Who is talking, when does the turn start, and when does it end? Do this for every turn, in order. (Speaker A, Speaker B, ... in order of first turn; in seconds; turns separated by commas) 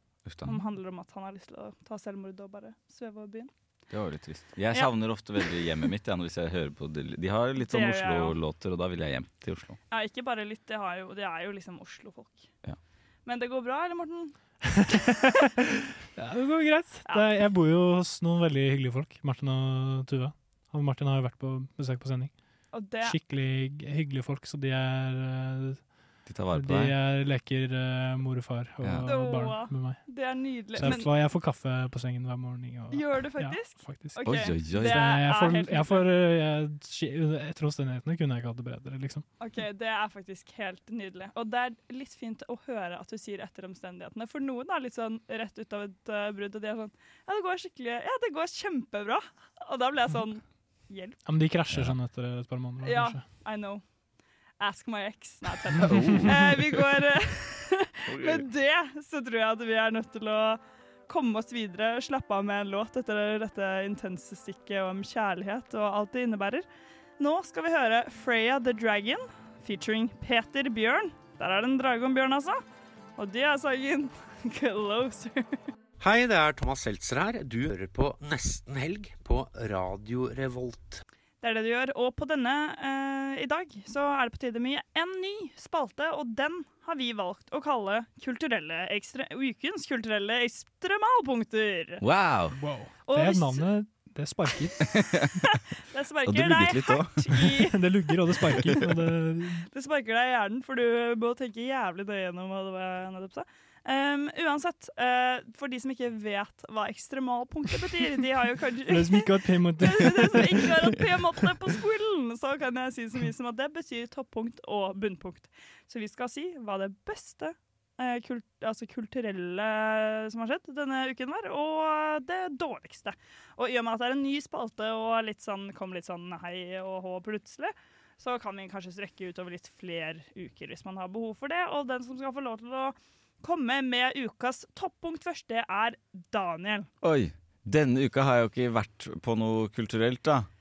Speaker A: 0.3-0.6, Speaker B: 0.4-3.5, Speaker A: 3.9-9.8, Speaker B: 7.6-8.4, Speaker B: 9.9-12.5, Speaker B: 13.3-14.3, Speaker C: 14.7-22.3, Speaker B: 22.7-23.2, Speaker C: 23.0-25.8, Speaker A: 26.3-26.9, Speaker C: 26.5-30.0, Speaker B: 29.0-31.1, Speaker C: 30.8-39.2, Speaker B: 32.9-36.1, Speaker A: 34.2-35.0, Speaker B: 39.4-51.2, Speaker C: 51.2-53.2, Speaker B: 52.8-53.8, Speaker B: 54.6-66.7, Speaker A: 55.8-56.4, Speaker C: 55.8-56.4, Speaker A: 58.1-58.5, Speaker B: 67.2-72.6, Speaker B: 73.2-75.6, Speaker D: 76.0-81.0, Speaker B: 81.4-92.0, Speaker A: 92.0-92.6, Speaker C: 92.5-94.9, Speaker B: 93.1-93.7, Speaker A: 94.9-95.3, Speaker B: 95.5-97.9, Speaker A: 96.3-97.5, Speaker C: 97.5-99.7, Speaker B: 98.5-98.8, Speaker B: 99.7-136.9, Speaker C: 108.9-111.0, Speaker A: 137.0-140.5